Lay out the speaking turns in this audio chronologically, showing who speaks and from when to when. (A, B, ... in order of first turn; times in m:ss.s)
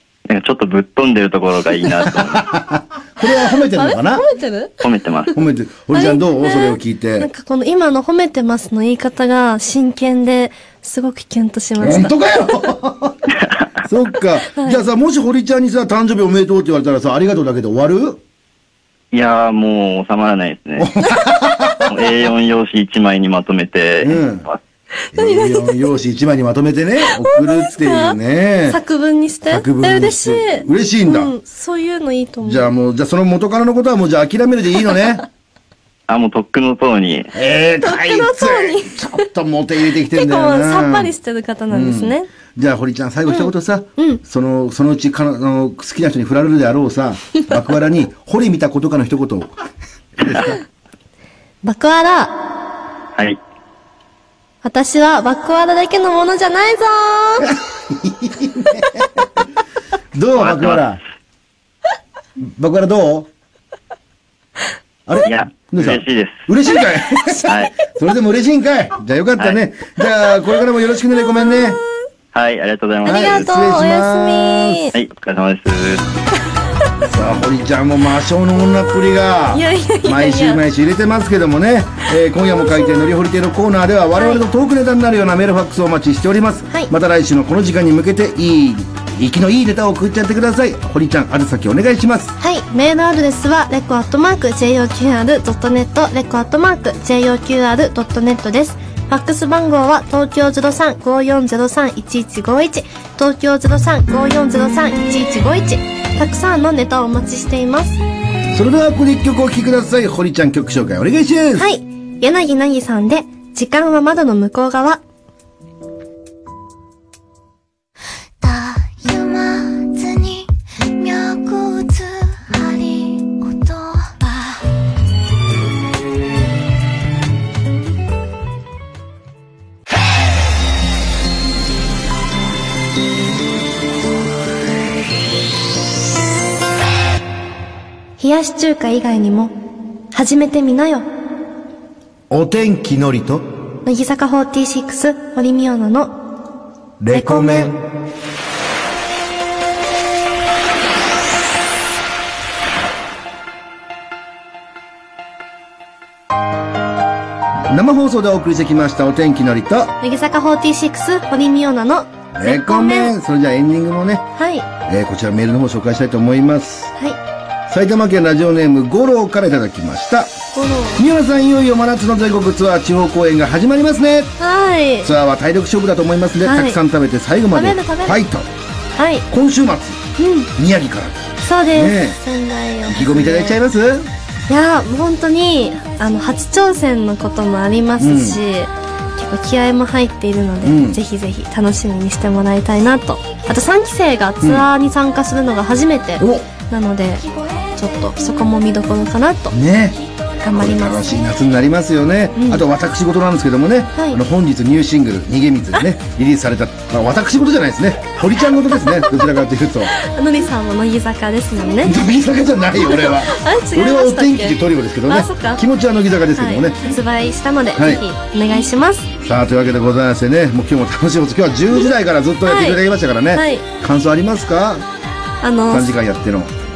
0:00.3-0:02.4 A
0:02.2-0:04.2 B
0:03.7-0:04.8 C
0:04.8-0:05.3 A
0:05.3-0:07.3 B
0:05.9-0:12.2 C
0:11.8-0:18.2 B
0:14.5-0:14.8 C
0:19.1-0:20.9 A
0:20.8-0:21.9 B
0:21.8-0:24.6 A
0:24.0-0:24.5 B
0:25.1-0:25.8 C
0:25.1-0:28.8 B
0:27.0-0:28.2 C
0:28.7-0:32.7 C
0:29.5-0:31.3 B
0:32.4-0:35.2 B
0:36.1-0:37.3 A
0:37.3-0:41.1 B
0:37.8-0:39.3 C
0:40.1-0:42.3 C
0:41.7-0:49.6 B
0:43.3-0:44.2 C
0:50.2-0:50.5 B
0:51.6-0:52.4 C
0:54.6-0:57.5 C
0:57.4-0:59.2 B
1:00.1-1:01.0 B
1:00.4-1:00.8 A
1:02.4-1:03.3 B
1:05.0-1:11.8 B
1:05.2-1:06.4 A
1:07.4-1:07.7 A
1:12.3-1:13.4 A
1:13.0-1:14.9 B
1:13.0-1:14.9 C
1:14.9-1:16.1 A
1:17.1-1:32.4 B
1:19.5-1:20.6 C
1:22.6-1:23.0 C
1:24.1-1:24.4 C
1:32.4-1:48.0 C
1:48.5-1:51.6 B
1:51.5-1:55.0 C
1:58.4-2:04.6 D
2:18.2-2:19.5 C
2:20.1-2:21.0 C
2:22.3-2:23.5 B
2:23.8-2:26.1 C
2:27.0-2:27.8 B
2:27.1-2:27.7 C
2:37.7-2:40.0 B
2:40.0-2:43.1 C
2:42.3-2:44.3 B
2:44.4-2:44.7 C
2:44.8-2:46.9 B
2:47.7-2:50.3 B
2:50.5-2:51.0 C
2:51.0-2:54.3 B
2:54.4-2:55.1 C
2:55.0-2:58.5 B
2:56.4-2:56.8 C
2:57.5-2:58.2 C
2:58.9-2:59.2 C
2:59.3-3:00.0 B
3:00.2-3:00.5 C
3:00.6-3:02.2 B
3:01.4-3:03.6 C
3:02.9-3:04.1 B
3:04.5-3:19.6 C
3:08.0-3:08.4 B
3:10.6-3:11.0 B
3:14.4-3:14.7 B
3:16.2-3:16.5 B
3:19.5-3:20.0 B
3:20.4-3:21.1 C
3:20.5-3:29.9 B
3:22.4-3:22.6 C
3:23.9-3:24.2 C
3:29.9-3:32.0 C
3:31.8-3:36.8 B
3:32.8-3:35.6 C
3:36.3-3:39.1 C
3:37.8-3:38.0 B
3:39.2-3:44.8 B
3:42.4-3:42.8 C
3:43.3-3:43.6 C
3:45.4-3:45.9 C
3:45.7-3:46.5 B